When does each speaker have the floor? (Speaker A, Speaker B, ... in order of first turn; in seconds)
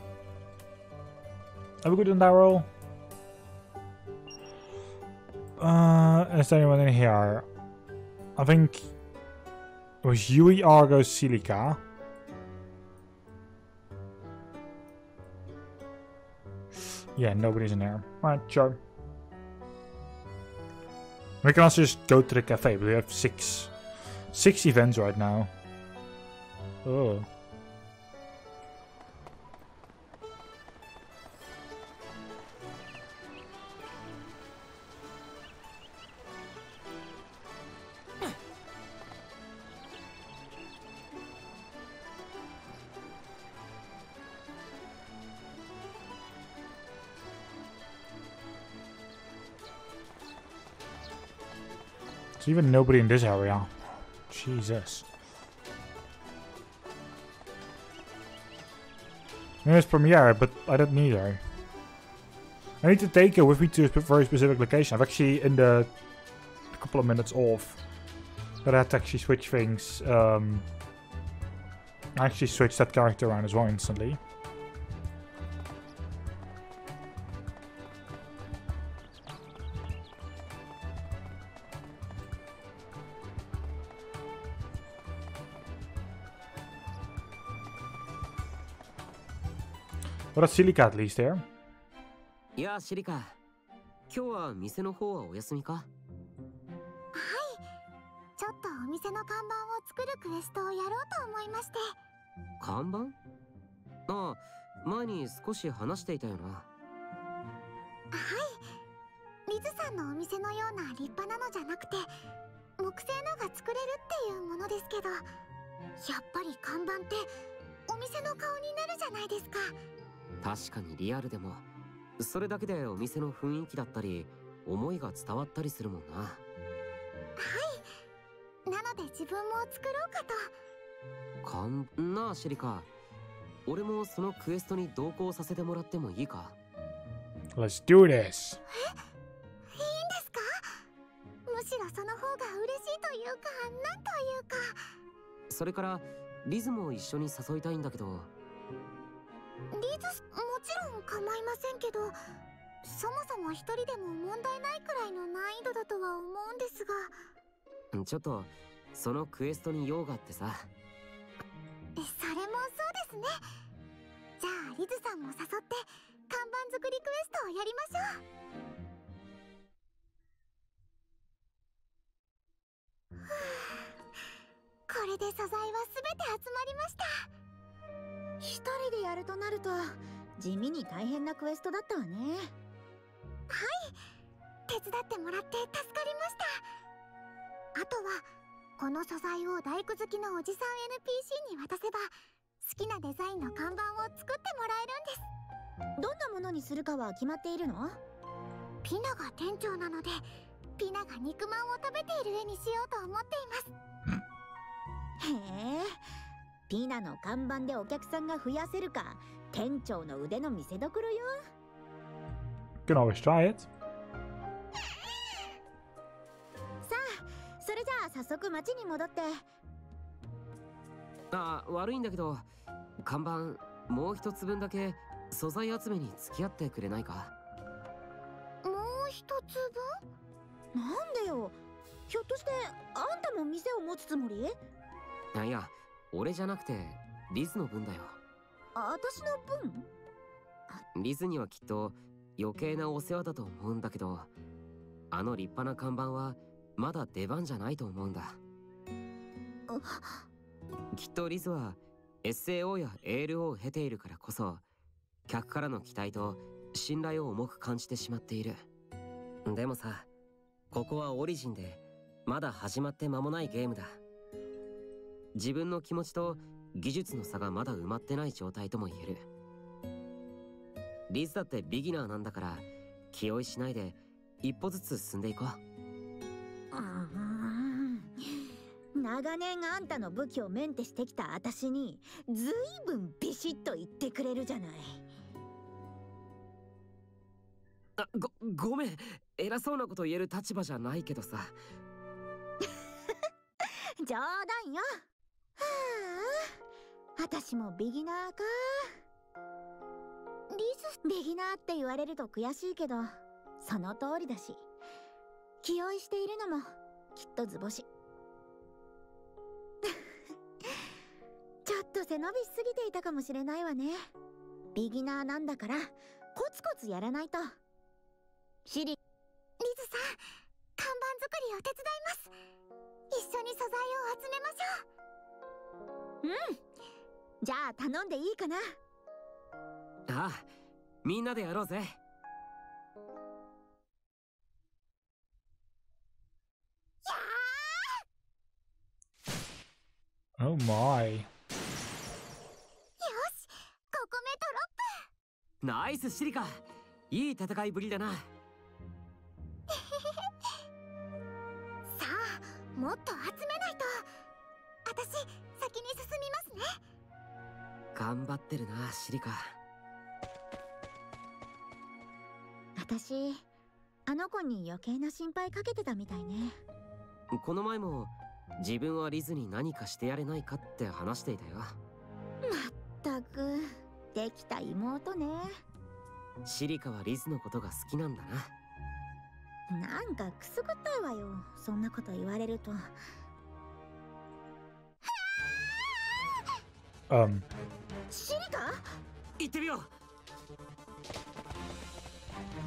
Speaker A: 1.8-2.7, 5.6-7.5, 8.4-8.9, 10.0-11.8, 17.2-18.8, 21.4-23.7, 24.3-25.5, 26.8-27.3, 52.4-55.1, 59.6-61.4, 62.8-66.0, 66.7-67.8, 68.6-70.7, 72.2-74.2, 90.3-91.5, 137.6-138.6, 212.9-213.7, 340.4-341.3, 387.1-387.5
Speaker B: 92.6-93.4, 94.1-95.9, 102.6-103.2, 104.1-106.7, 120.4-121.7, 122.2-126.4, 131.4-132.9, 133.7-136.6, 145.5-148.3, 157.9-160.7, 221.3-222.5, 223.0-227.3, 235.3-238.2, 240.9-244.3, 245.1-248.4, 250.9-254.6, 255.3-258.6, 259.5-260.1, 260.7-264.0, 265.4-269.3, 271.1-275.6, 288.0-291.6, 330.1-330.5, 331.0-332.0, 345.6-348.3, 357.9-359.6, 367.3-371.8, 376.4-378.5, 389.4-389.9
Speaker C: 97.1-97.6, 98.4-102.0, 108.1-108.6, 109.5-112.1, 112.8-115.2, 116.0-117.3, 117.9-119.7, 127.4-127.8, 128.7-130.5, 139.7-140.6, 141.5-144.8, 149.7-152.1, 152.8-157.1, 162.0-163.4, 164.4-168.2, 173.3-173.9, 174.9-177.3, 183.5-184.0, 184.7-186.6, 187.8-188.2, 188.8-195.3, 198.8-200.2, 200.8-203.7, 228.6-229.8, 295.6-296.6, 300.5-301.0, 319.6-320.2, 320.8-322.3, 323.1-324.8, 337.1-337.9, 343.0-345.1, 349.7-350.2, 351.9-354.0, 354.9-356.8
Speaker D: 178.4-182.5, 196.0-198.0, 205.2-206.0, 206.7-211.4, 216.8-219.4, 230.7-231.6, 232.1-234.6, 238.8-239.9, 249.7-250.2, 276.7-278.1, 279.0-285.0, 294.0-295.0, 297.2-298.9, 301.0-304.6, 305.6-307.9, 311.6-314.1, 314.8-317.6, 318.7-319.0, 326.2-326.6, 327.4-328.8, 362.8-363.4, 364.1-366.6, 372.4-375.6, 379.7-382.8, 388.1-388.9